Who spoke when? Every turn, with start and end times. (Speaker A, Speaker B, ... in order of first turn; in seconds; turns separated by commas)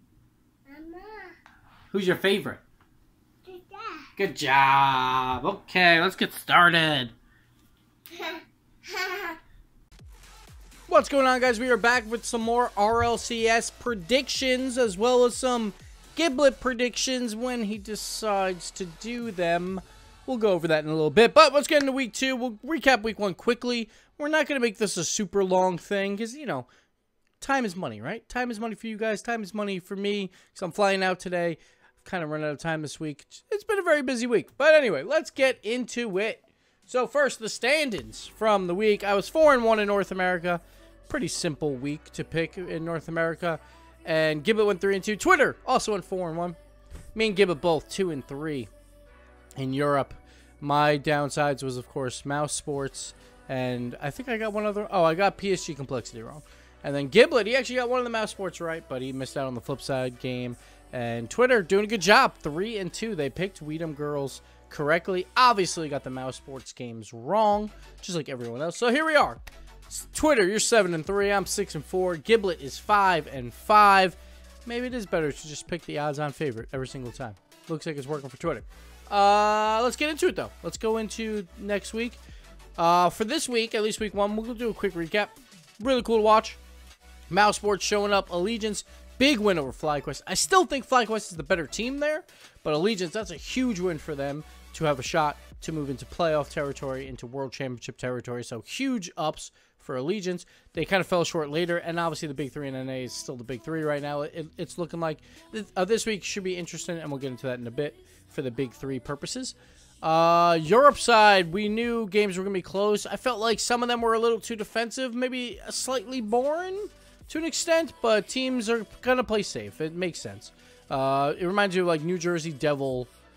Speaker A: 0.7-1.3, Speaker B: 1.9-2.6, Speaker A: 3.5-4.1, Speaker B: 4.2-7.1, Speaker A: 8.1-9.4, Speaker B: 10.9-26.6, Speaker B: 27.4-46.6, Speaker B: 47.1-48.7, Speaker B: 49.6-82.2, Speaker B: 82.8-86.6, Speaker B: 87.3-123.1